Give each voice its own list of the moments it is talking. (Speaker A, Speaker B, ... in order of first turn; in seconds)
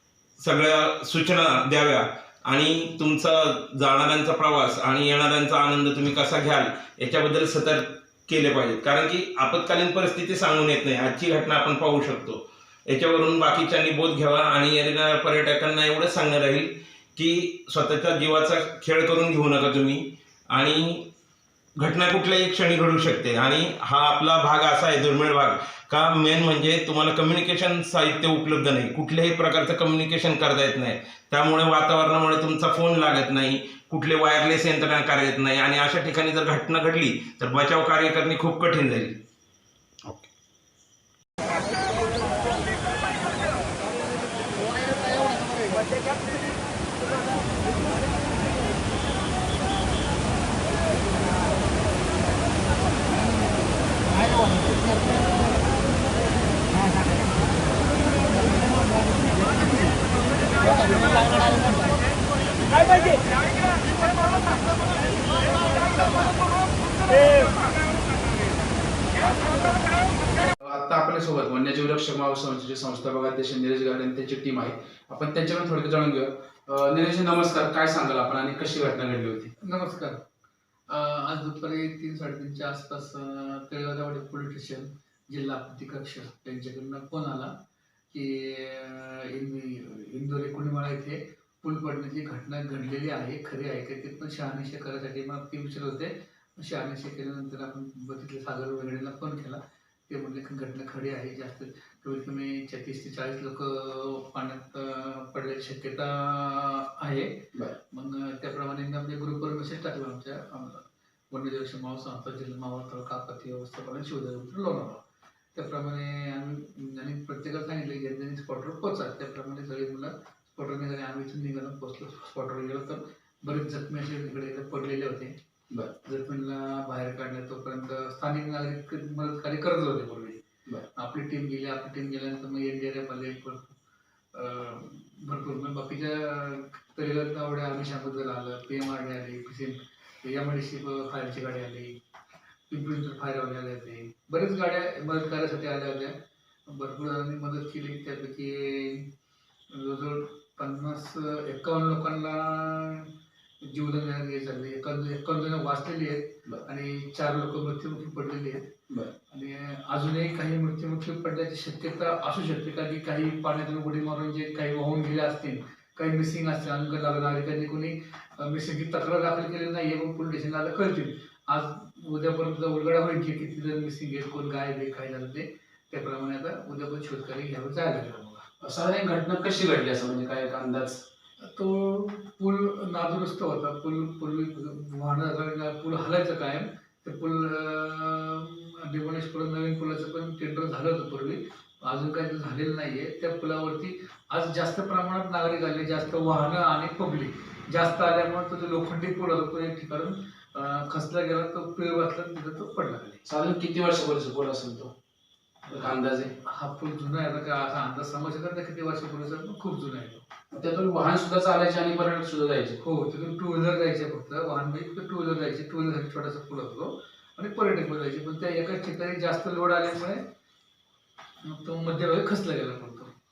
Speaker A: 0.4-21.1, 21.8-39.1
Speaker B: 40.0-40.3, 70.6-79.5, 178.6-181.0, 203.2-204.9, 205.7-206.3, 210.5-212.8
Speaker C: 79.6-80.2, 80.9-87.5, 88.1-107.3, 107.9-115.0, 115.5-125.3, 126.0-130.4, 131.0-133.7, 134.3-141.9, 142.7-146.1, 146.7-149.1, 149.7-153.1, 153.6-158.6, 159.3-178.4, 181.4-203.2, 206.5-210.2, 212.8-220.2, 221.4-223.1